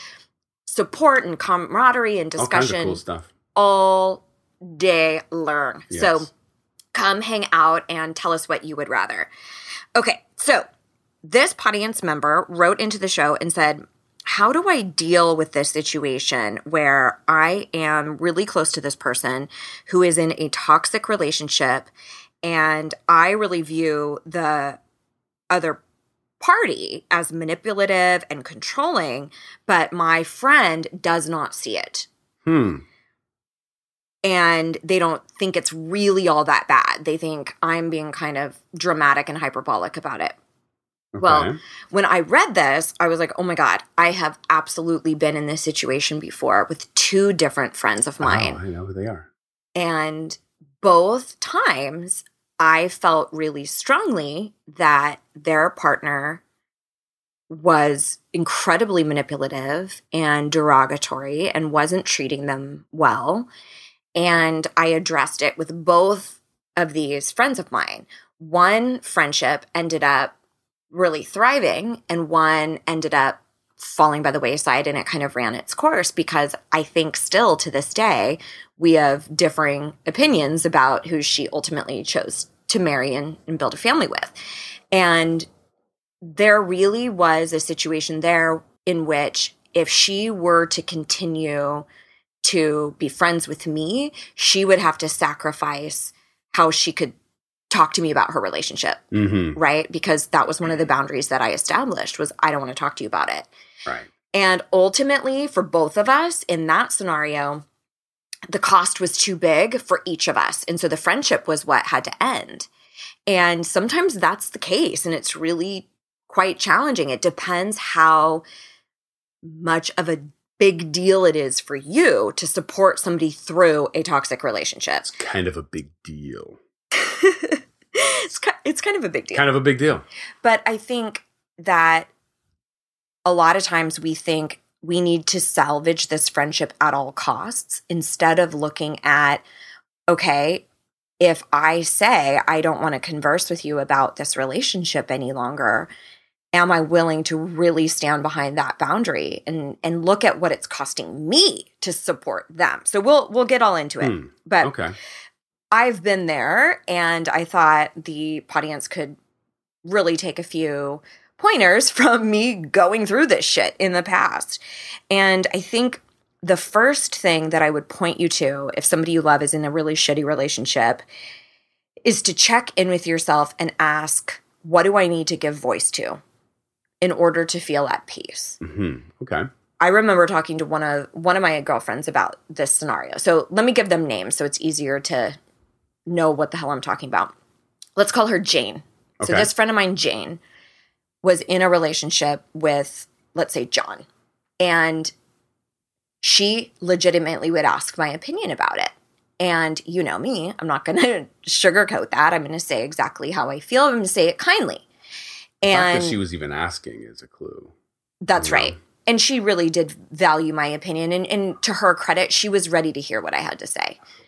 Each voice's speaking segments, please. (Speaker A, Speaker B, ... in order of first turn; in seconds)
Speaker A: 0.7-3.0, 3.5-6.3, 6.9-9.3, 9.9-10.7, 11.2-21.9, 22.4-24.8, 25.5-25.8, 26.4-32.1, 34.2-40.4, 41.2-48.6, 49.8-56.4, 57.5-63.5, 64.2-70.3, 70.9-84.3, 84.9-85.5, 86.2-91.9, 92.4-97.2, 97.7-99.0, 99.5-103.5, 104.3-107.7, 108.5-112.7, 113.3-118.5, 119.4-125.1, 127.0-129.4, 130.4-132.1, 133.3-139.4, 140.1-140.7, 141.2-145.9, 146.5-154.7, 155.7-159.2, 159.8-171.0, 172.1-176.2, 177.0-178.6, 179.8-185.4, 186.1-187.3, 188.0-190.4, 191.2-194.1, 194.6-195.1, 196.2-204.9, 205.6-206.2, 208.2-214.0
Speaker B: 2.4-3.3, 5.9-6.3, 32.5-32.8, 41.1-41.6, 48.2-49.3, 99.1-99.6, 125.0-126.6, 129.3-130.1, 154.0-154.9, 178.6-179.5, 189.2-189.5, 205.7-207.7, 208.4-208.8